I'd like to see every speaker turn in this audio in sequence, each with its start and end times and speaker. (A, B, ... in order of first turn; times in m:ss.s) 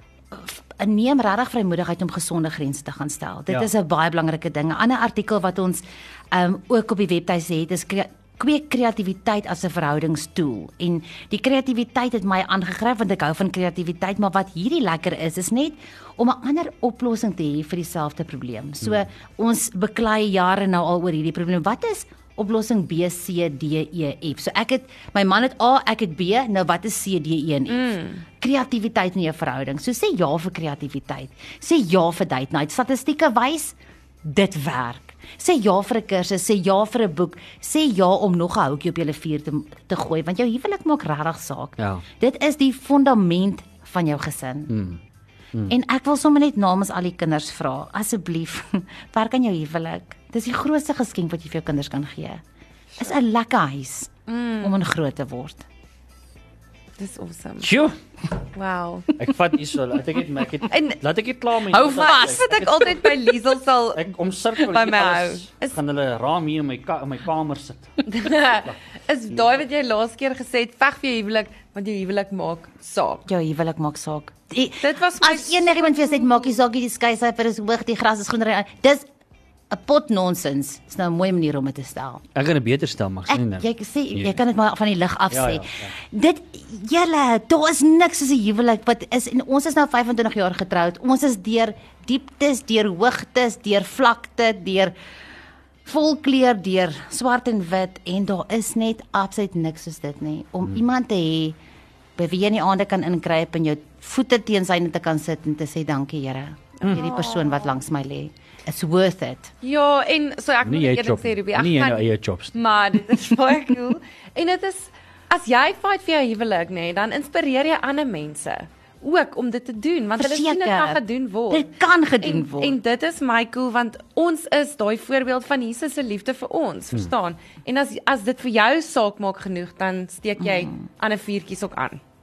0:00.3-0:44.7 A
0:27.7-0:28.2 B
0:41.8-0:42.0 C
0:44.7-0:45.0 C
0:45.7-0:52.4 A
0:53.0-0:55.6 A
0:54.3-0:54.8 B
0:57.0-0:57.7 B
0:57.6-0:57.9 C
0:58.5-0:59.1 B
0:59.2-1:03.3 C
1:00.7-1:01.0 B
1:01.6-1:04.0 B
1:03.9-1:08.8 C
1:04.5-1:05.7 B
1:08.1-1:13.2 B
1:13.2-1:19.0 A
1:14.8-1:16.5 B
1:19.7-1:22.2 A
1:22.3-1:24.3 C
1:23.3-1:34.9 A
1:25.3-1:25.9 C
1:35.8-1:41.6 A
1:42.2-1:49.5 A
1:46.8-1:47.7 B
1:49.6-2:01.7 B
1:50.6-1:52.6 C
2:00.2-2:02.8 A
2:02.2-2:12.0 B
2:10.4-2:10.8 A